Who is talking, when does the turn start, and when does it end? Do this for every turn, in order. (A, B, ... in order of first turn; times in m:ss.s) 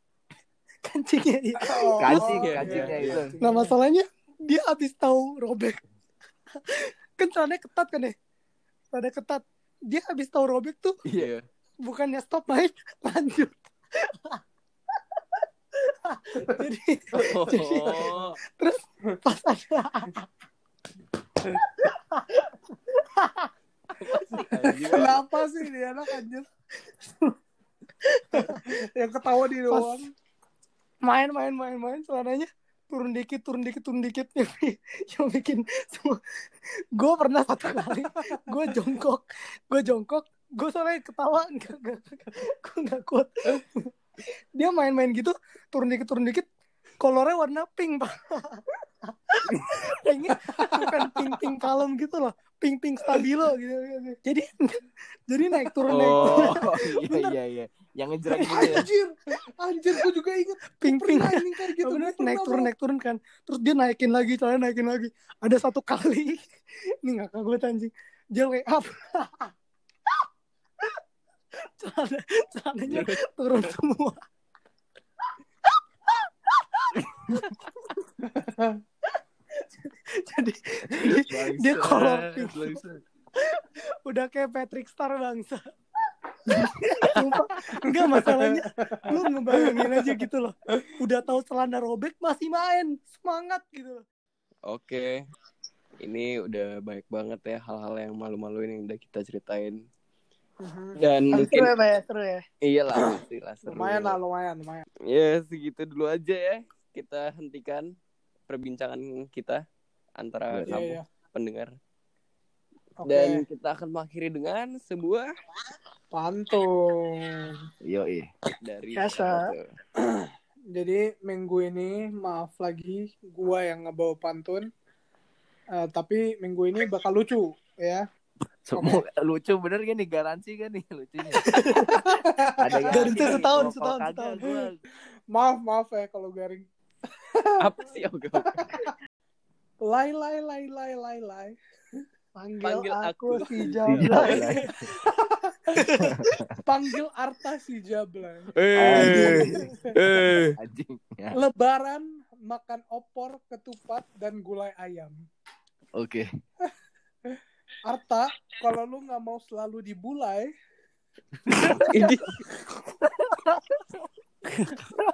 0:00.8-0:02.2 A
0:01.6-0:03.8 B
0:02.0-0:03.3 C
0:02.1-0:03.2 D
0:03.4-0:05.8 A
0:06.7-0:08.2 A
0:08.9-0:11.0 A
0:11.0-0:11.3 C
0:11.2-0:11.4 D
0:11.8-0:14.4 A
0:16.0-0:17.3 A
0:17.2-0:18.2 B
0:17.2-0:18.4 D
0:18.6-0:20.2 A
0:21.8-0:23.5 A
0:24.0-0:25.2 D
0:24.6-0:26.5 B
0:27.0-0:27.3 A
0:28.0-0:28.7 A
0:28.4-0:30.1 B
0:29.7-0:30.0 A
0:31.0-0:36.2 A
0:36.9-0:43.9 A
0:44.6-0:46.5 A
0:47.0-0:49.4 A
0:49.5-0:49.9 C
0:50.0-0:57.3 A
0:50.5-0:51.4 B
0:55.9-0:56.6 D
0:56.2-0:58.9 C
0:58.3-0:58.7 A
0:58.5-1:02.7 B
1:00.8-1:06.4 A
1:07.0-1:09.5 A
1:11.8-1:14.2 A
1:12.9-1:13.7 D
1:16.7-1:17.5 A
1:17.0-1:17.5 C
1:18.3-1:18.8 B
1:19.6-1:22.8 A
1:20.9-1:23.0 C
1:23.4-1:25.7 A
1:26.5-1:27.3 C
1:27.0-1:34.0 A
1:27.7-1:30.1 B
1:34.7-1:35.2 D
1:36.0-1:39.8 D
1:40.6-1:41.0 B
1:41.0-1:41.7 D
1:41.3-1:42.4 A
1:42.6-1:44.2 D
1:43.7-1:44.9 B
1:45.1-1:47.9 D
1:48.5-1:49.6 D
1:50.2-1:51.7 D
1:50.5-1:50.8 C
1:50.7-1:51.0 B
1:53.0-1:53.4 B
1:53.1-1:55.3 D
1:56.1-1:57.6 B
1:57.8-1:58.3 C
1:58.6-1:59.7 D
1:59.0-1:59.5 A
2:00.0-2:04.7 B
2:05.7-2:08.0 B
2:08.7-2:11.4 C
2:08.8-2:09.0 B
2:11.4-2:12.0 A
2:11.9-2:12.8 B
2:12.6-2:14.8 C
2:12.9-2:14.6 A
2:13.0-2:13.5 D
2:15.3-2:16.7 B
2:17.2-2:17.6 B
2:17.6-2:18.7 D
2:18.6-2:18.9 B
2:19.9-2:21.6 B
2:22.4-2:24.7 A
2:22.6-2:24.4 D
2:23.9-2:24.7 C
2:25.1-2:25.5 B
2:25.8-2:26.2 A
2:26.0-2:26.4 C
2:26.6-2:29.9 B
2:28.6-2:30.6 D
2:28.8-2:29.7 C
2:29.0-2:29.6 A
2:30.5-2:31.4 C
2:31.3-2:35.2 B
2:36.0-2:36.3 C
2:37.3-2:40.5 B
2:41.5-2:41.9 C
2:41.8-2:42.4 D
2:44.5-2:44.9 A